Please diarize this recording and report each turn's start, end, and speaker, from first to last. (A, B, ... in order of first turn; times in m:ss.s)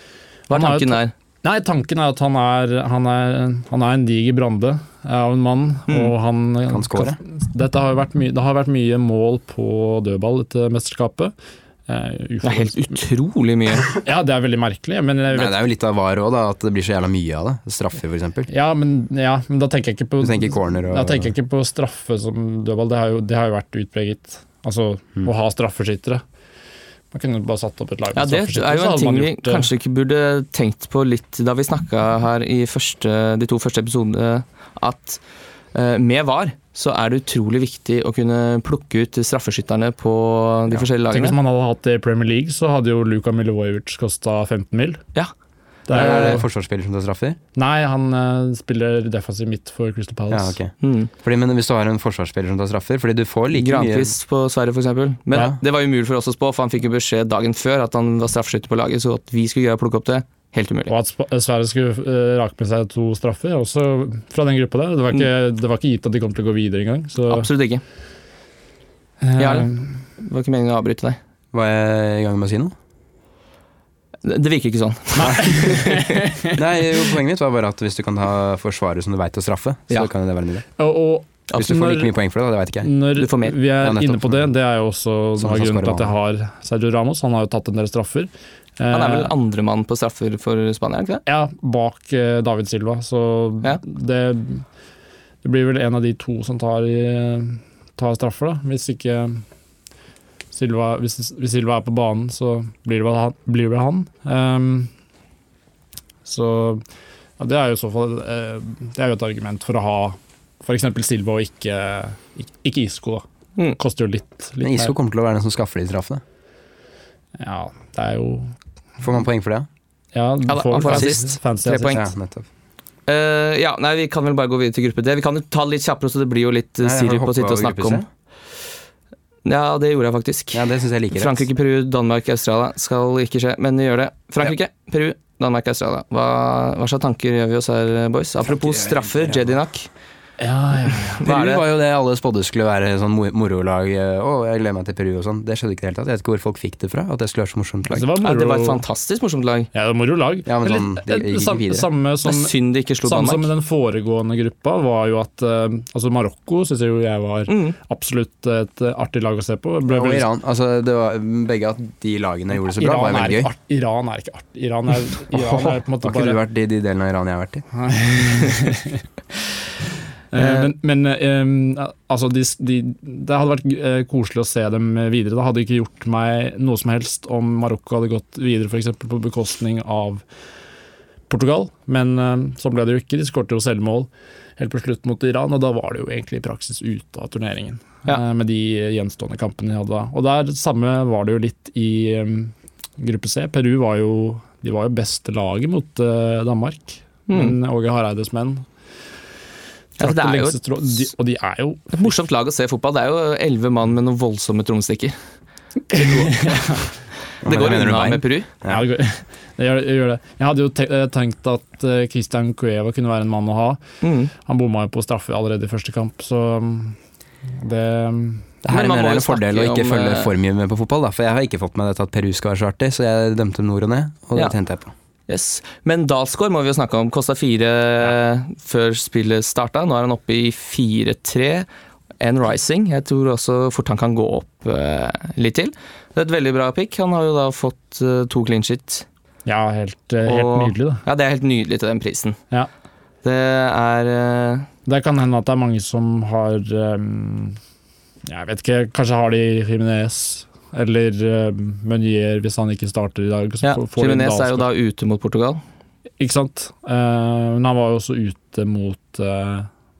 0:00.5-0:01.1 A
0:00.5-0:11.3 B
0:05.9-0:06.1 A
0:06.7-0:07.2 C
0:11.9-0:13.0 B
0:12.4-0:13.9 A
0:13.8-0:15.6 B
0:15.3-0:18.5 C
0:18.5-0:26.2 B
0:20.2-0:21.3 C
0:27.1-0:29.7 B
0:28.1-0:35.2 A
0:35.7-0:41.4 A
0:41.1-0:45.0 B
0:45.9-0:46.4 B
0:45.9-0:46.4 A
0:45.9-0:47.4 C
0:47.5-0:50.6 B
0:50.3-0:54.1 C
0:50.8-0:51.1 A
0:53.5-1:00.9 A
0:55.3-0:55.6 C
1:00.9-1:07.5 B
1:07.3-1:07.8 A
1:09.2-1:10.0 B
1:09.4-1:11.2 A
1:11.5-1:12.7 C
1:14.2-1:16.5 A
1:15.2-1:16.6 B
1:16.5-1:20.6 C
1:20.8-1:22.1 B
1:21.6-1:22.9 C
1:22.8-1:29.3 B
1:23.2-1:23.6 A
1:23.8-1:24.4 C
1:25.4-1:26.1 C
1:28.9-1:31.2 A
1:31.2-1:34.6 B
1:35.4-1:39.4 B
1:40.5-1:44.9 B
1:46.2-1:46.8 B
1:47.4-1:53.2 B
1:53.8-1:54.9 B
1:54.6-1:56.2 C
1:57.4-1:58.5 B
1:59.0-1:59.7 C
2:00.1-2:02.0 B
2:00.5-2:02.0 A
2:00.8-2:01.2 C
2:01.9-2:02.5 C
2:03.1-2:08.0 A
2:06.8-2:08.1 C
2:09.4-2:19.9 A
2:10.5-2:11.4 C
2:18.4-2:19.6 C
2:20.4-2:21.2 B
2:21.1-2:21.6 A
2:21.2-2:28.1 C
2:27.9-2:28.8 B
2:28.2-2:29.7 A
2:29.7-2:40.3 B
2:30.4-2:31.9 C
2:32.2-2:33.5 A
2:37.5-2:37.8 A
2:39.9-2:43.5 C
2:42.6-2:46.4 B
2:45.3-2:47.6 C
2:47.7-2:49.0 B
2:50.3-3:00.2 B
2:50.4-2:50.7 A
3:01.3-3:18.6 B
3:17.3-3:17.5 A
3:20.0-3:20.6 A
3:20.0-3:22.1 B
3:21.9-3:25.2 A
3:25.9-3:26.8 B
3:26.0-3:26.6 A
3:27.4-3:28.5 A
3:27.4-3:28.8 C
3:28.6-3:33.8 B
3:34.0-3:34.3 A
3:34.3-3:37.0 B
3:37.6-3:38.6 B
3:38.6-3:44.9 C
3:38.7-3:40.3 A
3:45.3-3:51.7 A
3:52.2-3:59.0 A
3:59.4-4:01.0 B
4:00.2-4:02.4 A
4:03.2-4:04.7 A
4:04.8-4:07.6 B
4:08.2-4:14.7 B
4:13.6-4:15.6 A
4:16.2-4:19.7 B